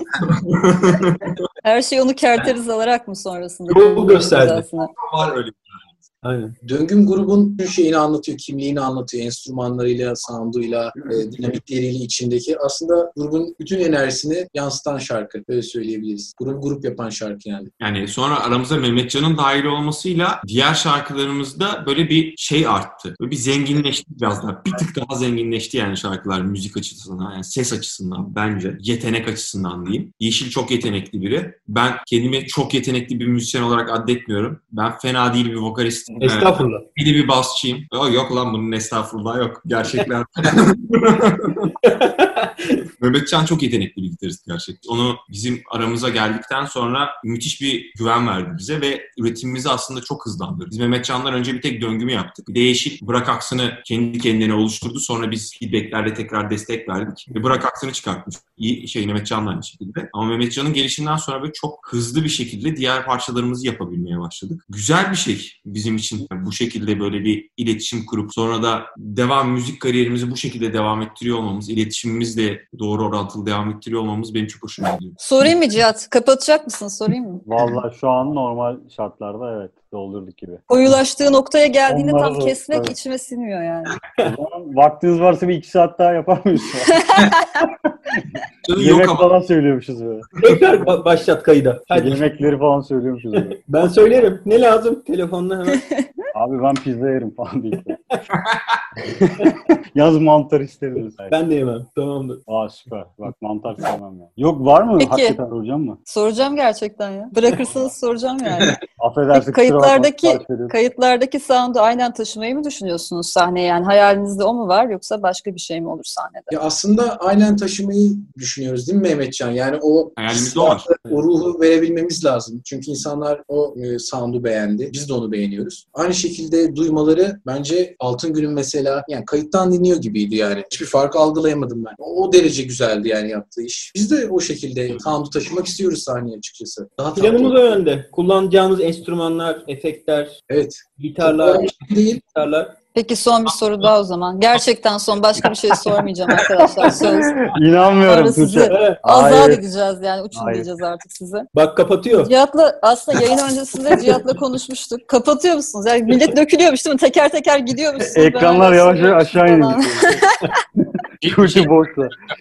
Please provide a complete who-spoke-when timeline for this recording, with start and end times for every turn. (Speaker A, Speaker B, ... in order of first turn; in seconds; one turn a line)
Speaker A: 0.2-1.4
Speaker B: 1.6-4.9
Speaker C: 3.7-4.6
Speaker A: 4.9-5.9
Speaker C: 6.2-6.5
Speaker D: 6.6-17.7
Speaker A: 17.8-41.7
Speaker C: 36.2-36.8
Speaker C: 41.8-42.8
Speaker A: 43.0-75.2
Speaker B: 75.2-77.4
Speaker E: 77.4-80.6
Speaker B: 80.7-84.0
Speaker E: 81.9-82.9
Speaker E: 84.2-87.2
Speaker B: 86.9-87.7
Speaker A: 88.6-89.3
Speaker E: 88.8-90.3
Speaker C: 90.4-92.2
Speaker E: 91.9-93.6
Speaker C: 93.6-95.8
Speaker B: 95.7-96.1
Speaker E: 96.3-98.0
Speaker A: 98.4-98.8
Speaker E: 99.0-101.3
Speaker C: 101.3-102.4
Speaker E: 102.5-106.0
Speaker B: 105.0-105.4
Speaker B: 106.1-108.8
Speaker E: 109.0-110.7
Speaker B: 109.3-116.5
Speaker D: 116.5-137.8
Speaker A: 120.2-120.9
Speaker C: 137.2-140.4
Speaker D: 140.5-142.2
Speaker C: 141.0-141.7
Speaker C: 142.3-142.7
Speaker B: 142.9-147.3
Speaker C: 146.4-147.5
Speaker E: 147.5-149.6
Speaker B: 147.9-151.5
Speaker C: 148.7-149.0
Speaker E: 150.3-150.7
Speaker C: 151.5-152.3
Speaker B: 152.1-160.6
Speaker E: 158.1-160.0
Speaker A: 161.2-161.8
Speaker E: 161.2-162.1